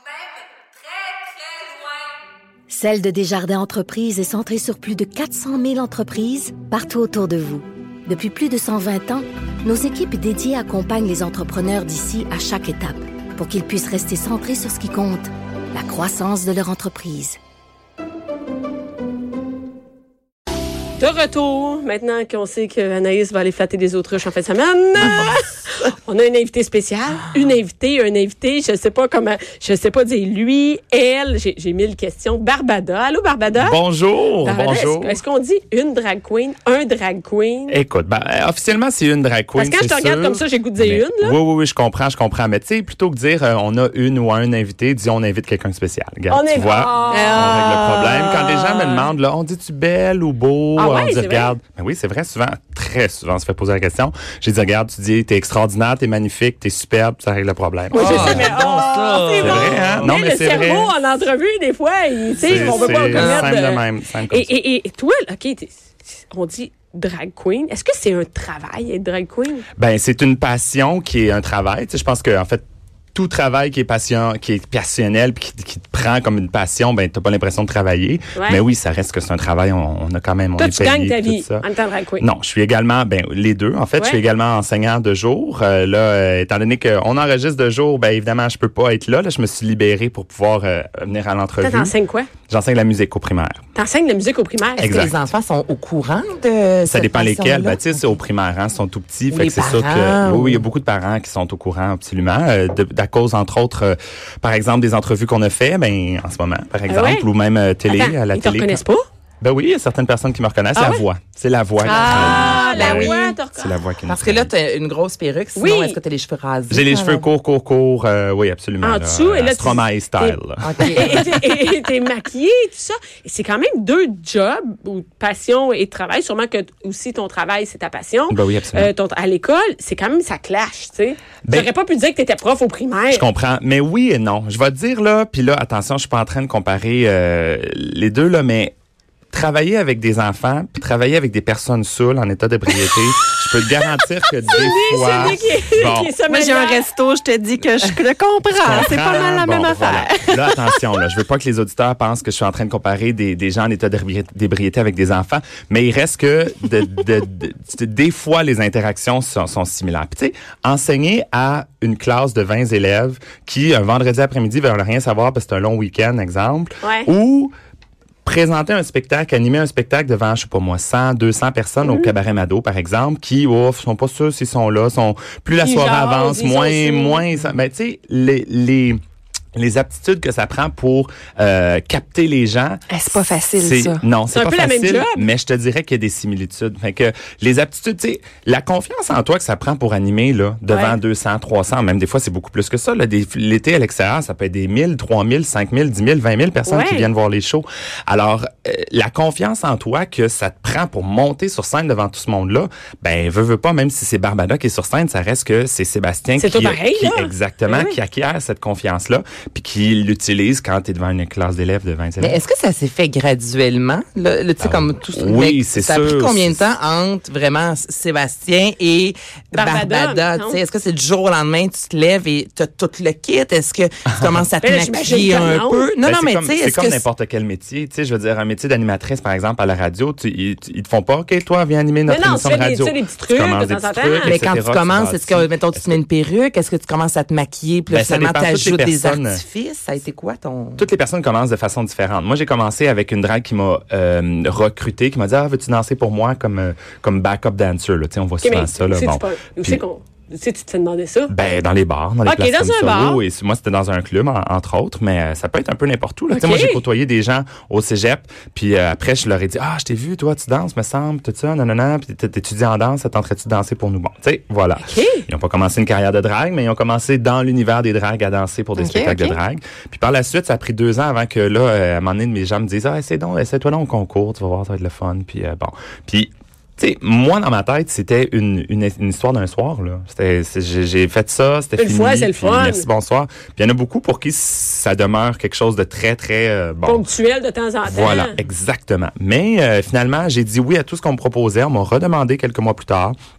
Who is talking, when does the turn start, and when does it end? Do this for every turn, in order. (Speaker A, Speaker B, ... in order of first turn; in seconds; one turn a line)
Speaker A: 2.7-17.4
Speaker B: 21.0-33.8
Speaker C: 33.5-35.2
Speaker B: 34.4-37.8
Speaker C: 37.7-58.5
Speaker B: 39.5-41.4
Speaker B: 46.3-47.6
Speaker D: 47.1-49.0
Speaker B: 50.8-51.5
Speaker B: 57.9-69.7
Speaker E: 57.9-60.1
Speaker C: 59.4-60.9
Speaker C: 62.4-64.5
Speaker E: 62.5-63.5
Speaker C: 69.8-72.6
Speaker C: 73.1-81.7
Speaker B: 78.3-78.6
Speaker B: 80.6-82.2
Speaker C: 82.2-91.9
Speaker B: 91.6-92.3
Speaker C: 92.5-93.6
Speaker B: 93.7-95.0
Speaker E: 94.8-98.2
Speaker C: 94.8-95.2
Speaker C: 96.8-108.8
Speaker E: 99.3-100.7
Speaker B: 106.9-107.3
Speaker B: 107.9-109.0
Speaker C: 109.4-114.5
Speaker D: 111.9-113.3
Speaker E: 111.9-113.0
Speaker B: 111.9-113.8
Speaker E: 114.1-117.3
Speaker B: 115.5-116.0
Speaker C: 116.7-121.5
Speaker B: 118.8-120.4
Speaker E: 120.6-121.2
Speaker B: 120.9-133.2
Speaker C: 128.3-128.9
Speaker C: 131.4-131.7
Speaker C: 133.1-138.7
Speaker C: 139.3-146.1
Speaker B: 144.5-146.8
Speaker D: 146.3-150.8
Speaker C: 148.6-167.5
Speaker B: 166.8-167.1
Speaker C: 168.2-179.0
Speaker B: 171.8-172.1
Speaker B: 175.6-177.2
Speaker C: 179.5-212.4
Speaker D: 182.9-184.0
Speaker B: 184.3-185.3
Speaker B: 190.7-191.0
Speaker B: 196.7-197.1
Speaker B: 206.4-207.9
Speaker E: 212.2-227.0
Speaker C: 214.6-216.6
Speaker B: 219.5-220.6
Speaker B: 224.6-225.9
Speaker C: 226.0-236.0
Speaker B: 232.1-234.4
Speaker E: 234.2-240.9
Speaker C: 237.9-239.4
Speaker C: 240.8-249.8
Speaker B: 248.4-251.4
Speaker C: 251.3-287.1
Speaker B: 252.2-253.2
Speaker B: 256.3-256.8
Speaker B: 264.8-265.2
Speaker D: 268.8-269.4
Speaker B: 281.8-282.9
Speaker B: 286.8-288.3
Speaker C: 287.8-293.1